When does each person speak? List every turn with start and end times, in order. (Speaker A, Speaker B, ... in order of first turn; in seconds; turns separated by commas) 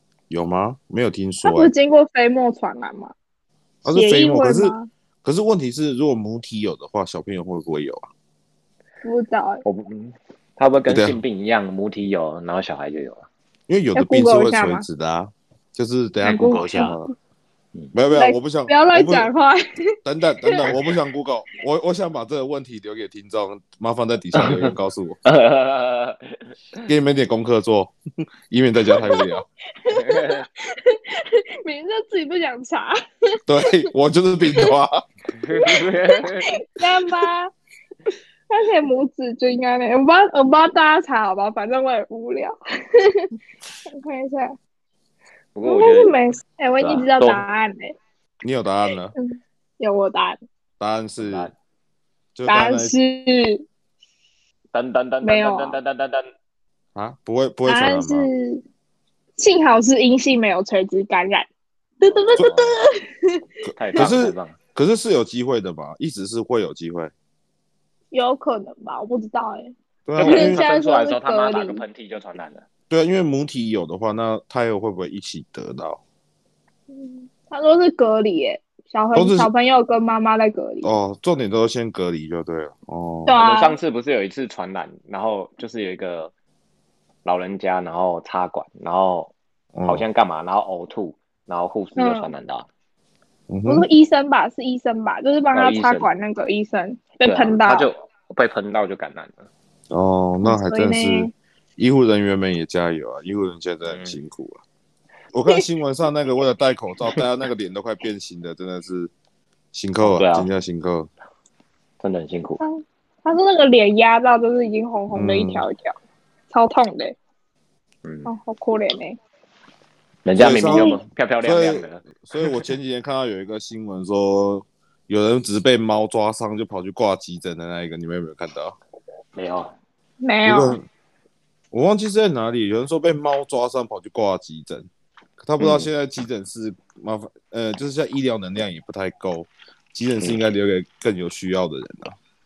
Speaker A: 0.3-1.7, Speaker B: 1.4-3.1, Speaker A: 3.8-8.1, Speaker B: 3.9-4.9, Speaker B: 9.0-9.6, Speaker C: 9.6-13.3, Speaker A: 10.8-11.2, Speaker A: 13.7-17.1, Speaker B: 13.9-14.8, Speaker B: 16.3-17.0, Speaker C: 16.3-16.9, Speaker A: 17.9-19.3, Speaker B: 18.1-19.6, Speaker A: 20.0-25.2, Speaker C: 24.3-24.7, Speaker C: 25.2-26.8, Speaker A: 26.9-27.9, Speaker A: 28.5-29.4, Speaker B: 29.0-29.3, Speaker B: 29.8-33.0, Speaker C: 29.9-30.4, Speaker A: 33.5-35.0, Speaker C: 35.4-36.5, Speaker B: 35.5-37.5, Speaker B: 38.5-43.3, Speaker B: 43.9-44.5, Speaker C: 45.5-46.2, Speaker B: 45.6-48.0, Speaker C: 46.8-47.4, Speaker A: 48.4-49.1, Speaker B: 49.1-50.4, Speaker A: 50.8-51.5, Speaker C: 51.2-51.5, Speaker A: 52.3-52.9, Speaker B: 52.5-53.6, Speaker C: 54.7-56.3, Speaker B: 55.2-55.8, Speaker A: 56.9-58.3, Speaker B: 57.6-58.6, Speaker B: 59.4-61.5, Speaker B: 62.0-63.4, Speaker C: 62.0-62.8, Speaker A: 63.6-67.1, Speaker C: 63.8-64.6, Speaker B: 68.1-71.8, Speaker A: 70.1-70.6, Speaker C: 70.2-72.7, Speaker A: 72.9-76.0, Speaker B: 76.9-80.9, Speaker A: 79.1-79.5, Speaker A: 80.8-83.3, Speaker B: 83.2-83.8, Speaker C: 83.3-86.3, Speaker C: 87.2-89.3, Speaker A: 89.7-90.0, Speaker C: 89.9-92.7, Speaker B: 92.0-92.3, Speaker A: 93.5-93.8, Speaker B: 93.7-97.9, Speaker C: 95.5-96.1, Speaker C: 97.2-99.5, Speaker A: 99.9-104.6, Speaker B: 100.4-101.3, Speaker C: 103.8-104.2, Speaker A: 105.3-109.1, Speaker A: 109.7-111.1, Speaker C: 110.0-110.5, Speaker C: 112.0-112.6, Speaker B: 112.6-115.9, Speaker A: 115.1-115.7, Speaker B: 116.5-117.2, Speaker C: 118.0-118.3, Speaker B: 118.2-119.2, Speaker C: 120.2-122.6, Speaker A: 120.3-128.8, Speaker B: 120.7-121.0, Speaker C: 129.3-129.7, Speaker B: 130.2-130.8, Speaker A: 130.4-130.8, Speaker A: 131.7-134.9, Speaker A: 135.4-142.2, Speaker C: 135.6-135.9